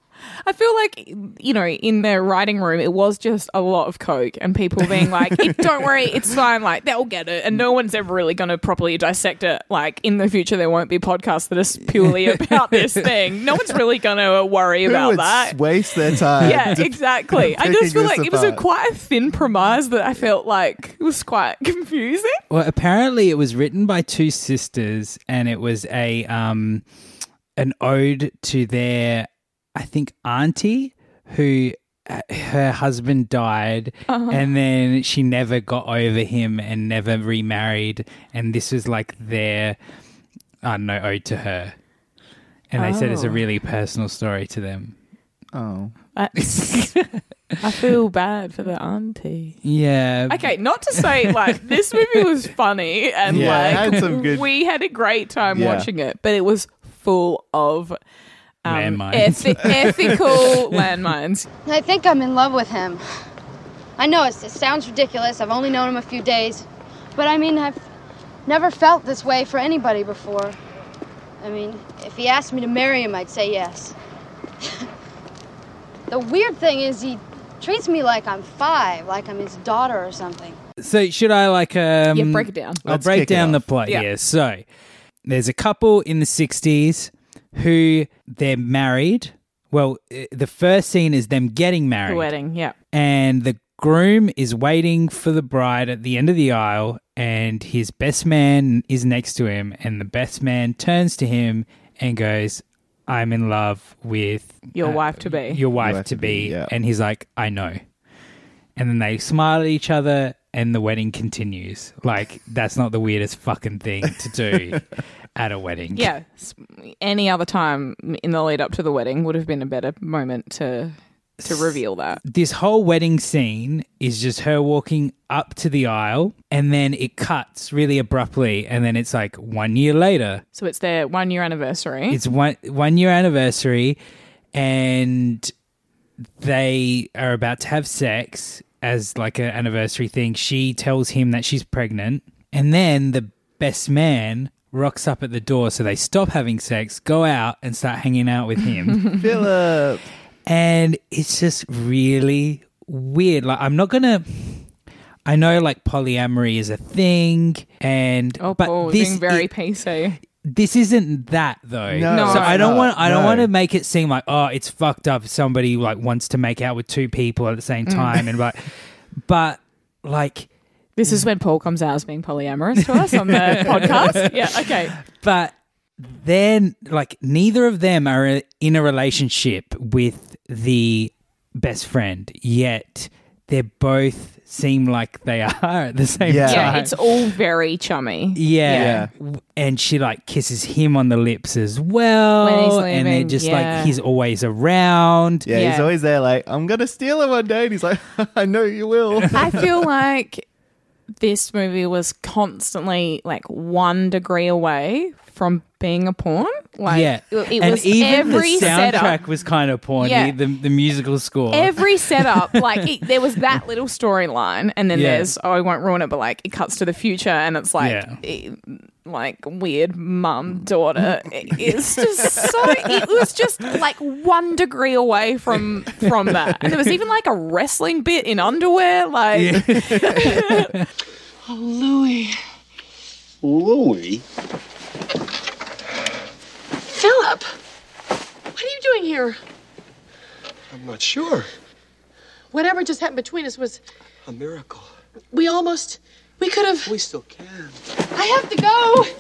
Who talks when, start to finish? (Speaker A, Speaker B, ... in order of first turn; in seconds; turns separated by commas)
Speaker A: 0.4-15.6, Speaker B: 5.3-5.6, Speaker C: 12.2-12.9, Speaker B: 14.8-18.6, Speaker A: 16.4-22.4, Speaker C: 22.5-26.8, Speaker C: 27.6-39.8, Speaker A: 34.1-34.4, Speaker C: 40.6-41.8, Speaker C: 42.7-44.9, Speaker A: 42.8-43.4, Speaker B: 45.5-45.9, Speaker A: 46.1-46.9, Speaker C: 46.5-47.2, Speaker A: 47.6-49.6, Speaker C: 49.6-51.6, Speaker A: 50.3-58.0, Speaker B: 53.3-54.5, Speaker C: 53.3-53.9, Speaker B: 55.5-55.9, Speaker A: 58.6-61.5, Speaker C: 58.7-60.8, Speaker D: 61.7-63.0, Speaker D: 64.0-67.8, Speaker D: 68.5-70.6, Speaker D: 71.4-74.0, Speaker D: 76.1-80.6, Speaker C: 80.8-84.6, Speaker A: 82.1-82.8, Speaker B: 82.9-83.6, Speaker C: 85.3-92.3, Speaker A: 92.1-92.8, Speaker C: 92.9-107.8, Speaker A: 104.8-105.6, Speaker B: 105.8-106.7, Speaker C: 108.8-116.1, Speaker A: 116.0-122.2, Speaker C: 121.4-130.4, Speaker A: 130.6-132.2, Speaker C: 132.1-134.0, Speaker C: 134.5-135.5, Speaker C: 136.4-149.2, Speaker B: 149.2-150.0, Speaker C: 150.5-154.7, Speaker C: 155.3-159.5, Speaker A: 158.4-160.2, Speaker C: 160.4-168.7, Speaker B: 161.9-163.5, Speaker A: 162.1-162.7, Speaker A: 167.9-168.2, Speaker C: 169.2-170.5, Speaker A: 171.0-174.9, Speaker C: 172.8-186.9, Speaker B: 186.2-186.9, Speaker A: 186.4-189.0, Speaker C: 188.3-195.5, Speaker B: 188.7-189.1, Speaker A: 192.4-193.9, Speaker B: 195.5-199.6, Speaker A: 195.5-195.9, Speaker A: 199.3-200.4, Speaker A: 201.2-209.2, Speaker C: 206.9-212.8, Speaker A: 210.0-210.3, Speaker A: 211.5-230.7, Speaker C: 214.9-215.3, Speaker C: 217.8-218.2, Speaker C: 229.3-230.9, Speaker E: 231.4-232.4, Speaker F: 233.4-234.2, Speaker E: 236.9-237.5, Speaker E: 238.5-239.4, Speaker F: 240.7-241.5, Speaker E: 242.5-243.8, Speaker F: 244.2-244.9, Speaker E: 245.3-246.9, Speaker F: 246.9-247.8, Speaker E: 248.1-249.1